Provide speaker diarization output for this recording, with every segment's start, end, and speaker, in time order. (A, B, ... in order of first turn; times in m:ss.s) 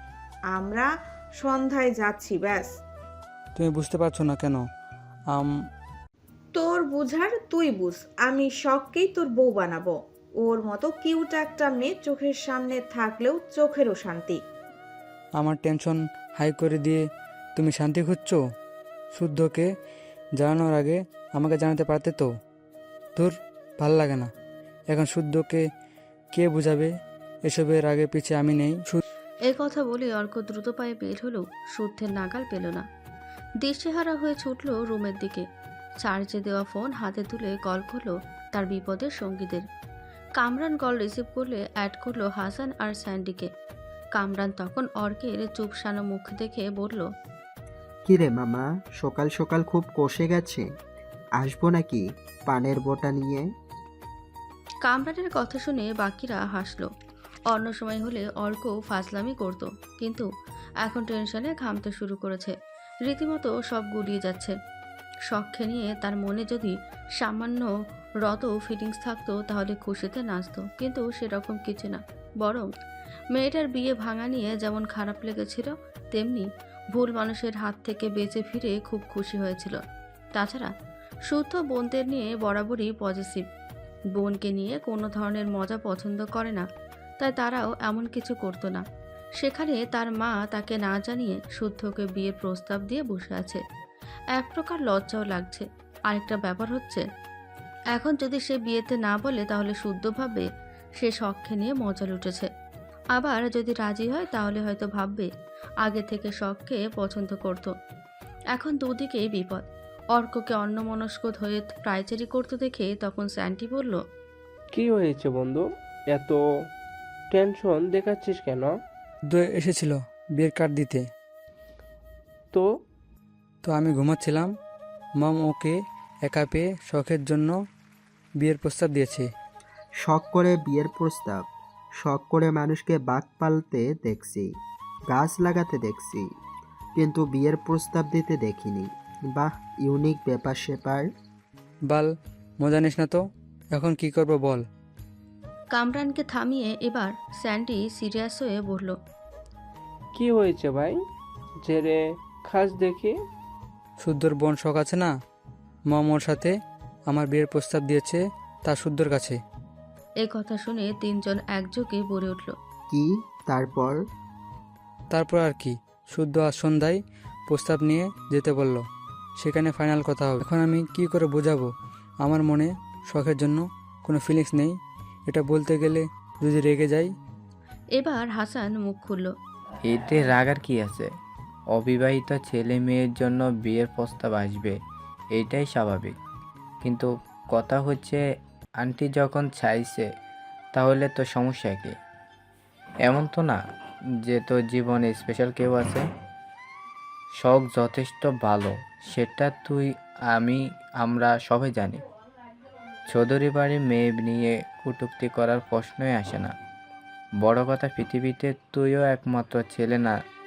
0:00.5-0:02.7 A
0:03.6-0:04.6 B
0:06.5-0:14.4 A
0:15.4-0:17.0 B
0:17.6-0:18.4 B
0:19.1-0:19.7 B
0:20.4-0:22.3 B
0:23.2-0:24.3 B
0:24.9-0:25.6 B
0:26.3-0:26.9 B
0:27.5-0:29.0 B
0:29.4-0:32.8 C
0:33.6-0:35.4 C
0:36.0-0:39.6 C
0:40.4-0:43.5 C
0:44.1-0:47.1 C
0:48.0-0:50.7 D
0:51.4-0:53.5 D
0:54.8-0:56.9 C
0:57.5-1:00.2 C
1:00.8-1:02.5 C
1:03.0-1:04.5 C
1:05.3-1:07.7 C
1:08.2-1:12.7 C
1:13.3-1:19.8 C
1:20.3-1:20.7 C
1:21.3-1:23.4 C
1:24.2-1:26.6 C
1:27.2-1:28.8 C
1:29.4-1:33.6 C
1:34.3-1:37.0 C
1:37.9-1:40.4 C
1:41.0-1:42.5 C
1:43.1-1:45.3 C
1:45.8-1:47.7 C
1:48.5-1:54.0 C
1:54.7-1:56.4 E
1:57.3-1:58.8 E
1:59.3-2:01.0 B
2:03.6-2:04.5 B
2:05.2-2:05.7 B
2:06.3-2:07.5 B
2:08.4-2:09.3 B
2:10.0-2:11.4 D
2:12.0-2:14.5 D
2:15.1-2:16.3 D
2:17.0-2:21.1 D
2:22.6-2:23.2 B
2:23.7-2:24.6 B
2:25.7-2:29.0 C
2:30.1-2:31.0 E
2:31.6-2:33.2 E
2:34.0-2:35.1 B
2:35.9-2:36.5 B
2:37.1-2:39.4 B
2:40.2-2:42.5 C
2:42.9-2:44.0 D
2:45.1-2:47.0 B
2:47.5-2:48.8 B
2:49.4-2:51.7 B
2:52.2-2:54.8 B
2:55.3-2:57.1 B
2:58.0-2:59.3 C
2:59.9-3:01.1 F
3:01.7-3:04.7 F
3:05.4-3:06.1 F
3:06.8-3:08.2 F
3:08.8-3:10.0 F
3:10.7-3:11.9 F
3:13.1-3:13.6 F
3:14.3-3:16.0 F
3:17.4-3:22.0 F
3:23.1-3:26.5 F
3:27.4-3:30.1 F